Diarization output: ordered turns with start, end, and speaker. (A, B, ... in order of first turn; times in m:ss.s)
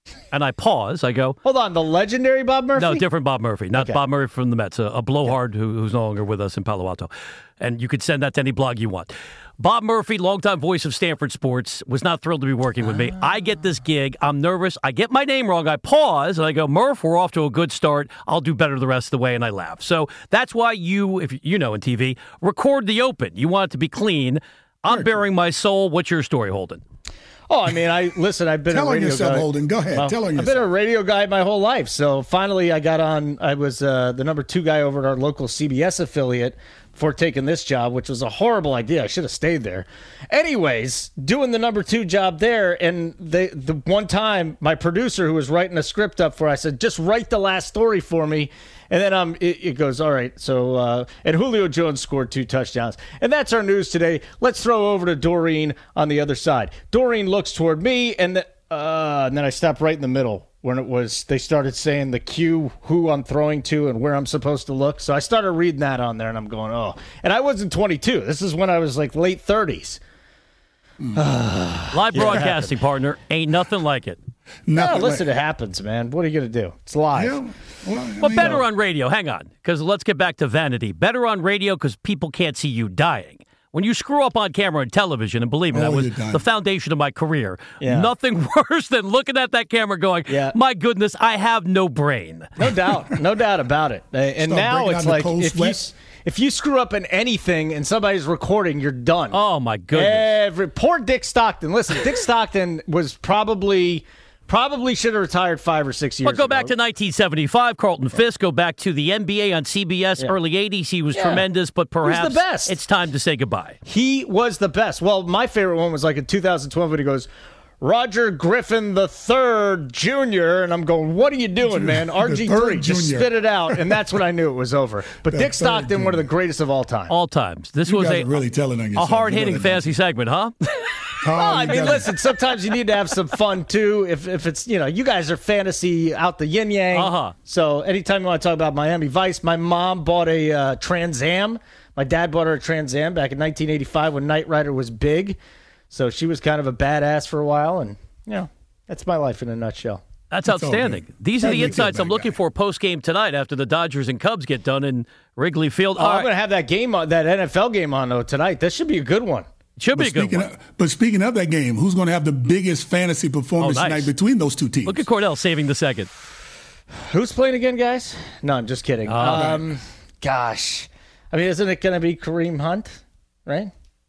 0:00.3-0:01.4 A
0:01.4-0:03.0 B
0:02.8-0:26.8 A
0:03.8-0:04.0 B
0:27.5-1:10.0 B
0:28.7-0:30.7 C
1:11.2-1:12.7 B
1:11.9-1:14.2 A
1:12.2-1:12.5 C
1:14.7-1:15.2 C
1:14.7-1:17.4 B
1:17.1-1:18.7 C
1:18.2-1:32.5 A
1:25.7-1:26.4 C
1:27.8-1:28.1 B
1:30.3-1:30.6 B
1:32.6-1:39.4 B
1:34.4-1:35.8 C
1:39.3-1:40.3 A
1:39.9-1:46.7 B
1:46.2-1:53.8 A
1:51.2-1:51.4 B
1:52.0-1:52.8 B
1:53.8-1:57.3 B
1:57.8-2:07.2 B
2:01.6-2:04.0 C
2:05.3-2:06.3 C
2:07.1-2:08.4 A
2:07.9-2:10.0 C
2:09.0-2:11.2 A
2:11.2-2:12.2 C
2:11.3-2:25.4 B
2:16.9-2:17.3 A
2:25.9-2:30.0 B
2:30.3-2:36.3 A
2:30.5-2:32.4 C
2:31.4-2:32.0 B
2:36.0-2:39.5 B
2:39.8-2:40.5 A
2:39.9-2:45.0 C
2:43.6-2:44.1 A
2:44.8-2:46.1 A
2:47.1-2:53.7 B
2:49.1-2:49.6 A
2:49.3-2:49.7 C